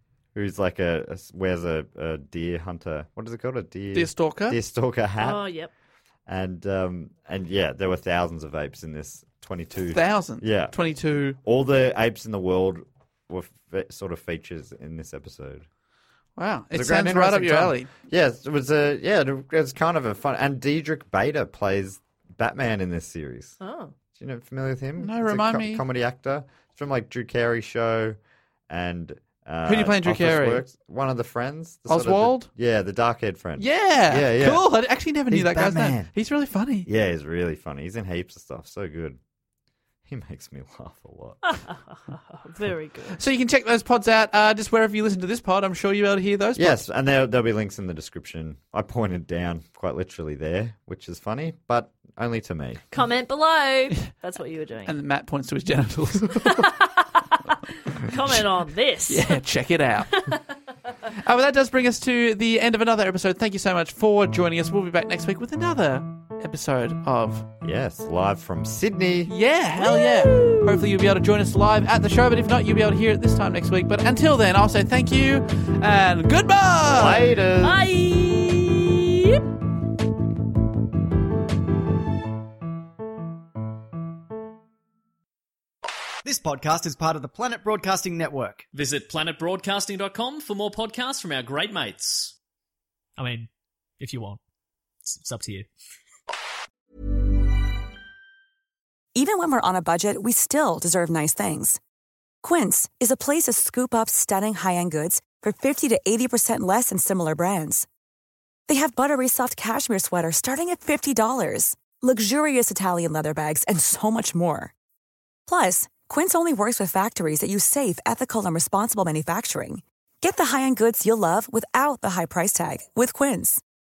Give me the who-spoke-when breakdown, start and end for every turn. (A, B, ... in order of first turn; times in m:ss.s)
0:00.3-0:05.4 A
0:03.9-0:04.6 B
0:05.2-0:05.7 C
0:06.3-0:10.7 A
0:09.9-0:11.4 B
0:11.4-0:15.6 A
0:16.4-0:17.9 B
0:16.7-0:23.6 A
0:23.6-0:23.9 C
0:24.2-0:28.2 A
0:25.0-0:25.8 B
0:28.7-0:34.6 A
0:29.7-0:30.6 B
0:31.9-0:32.5 B
0:33.6-0:36.9 B
0:35.3-0:36.1 A
0:36.8-0:39.2 A
0:40.0-0:41.4 A
0:41.4-0:43.2 C
0:43.1-0:46.8 B
0:46.6-0:52.8 A
0:52.9-0:55.0 C
0:54.8-0:56.7 B
0:56.4-0:59.4 C
0:59.1-1:00.3 B
1:00.1-1:00.4 C
1:01.1-1:07.5 B
1:07.6-1:09.3 A
1:09.3-1:17.3 B
1:09.8-1:10.8 C
1:16.8-1:17.8 A
1:17.6-1:19.4 C
1:26.2-1:28.7 D
1:28.7-1:32.3 E
1:33.2-1:33.5 E
1:34.0-1:34.4 E
1:35.0-1:35.7 E
1:39.1-1:41.8 F
1:42.4-1:47.9 F
1:48.7-1:54.7 F
1:55.5-2:03.6 F